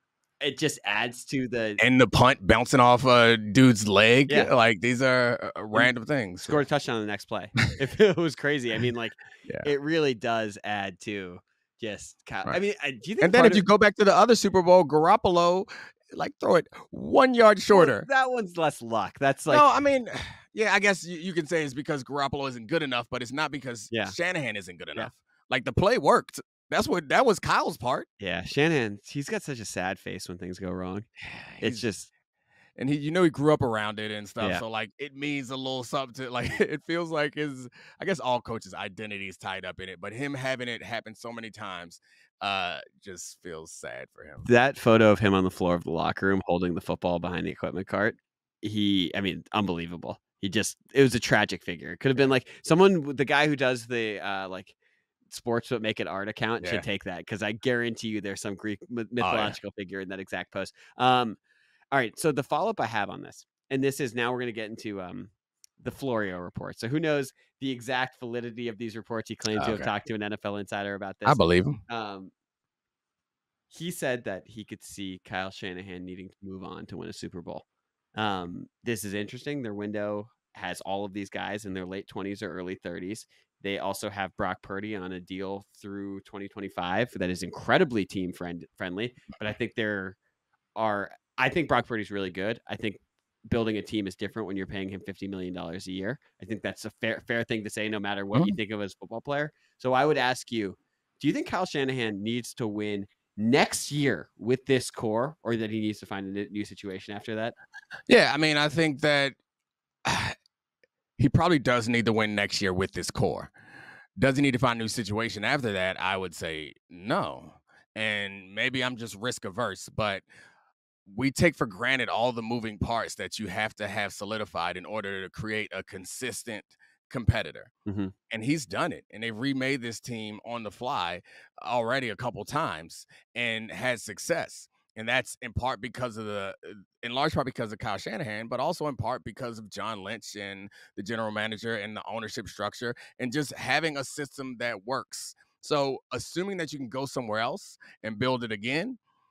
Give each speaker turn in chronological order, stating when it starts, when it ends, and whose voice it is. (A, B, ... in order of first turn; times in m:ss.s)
0:00.4-0:01.8 A
0:01.8-0:06.6 B
0:06.4-0:13.6 A
0:13.2-0:18.1 B
0:17.7-0:19.6 A
0:19.5-0:28.1 B
0:28.2-0:32.1 A
0:31.3-0:31.8 B
0:32.8-0:44.4 B
0:44.4-0:54.7 A
0:55.3-1:01.4 A
0:56.6-0:56.8 B
0:59.2-0:59.6 B
1:01.9-1:12.3 A
1:09.5-1:09.9 B
1:11.2-1:11.8 B
1:13.7-1:30.2 A
1:30.8-1:47.5 A
1:48.1-1:49.4 B
1:50.0-1:50.3 B
1:51.2-1:53.5 B
1:54.2-2:00.2 B
2:01.0-2:07.7 B
2:07.8-2:08.1 A
2:08.3-2:29.0 B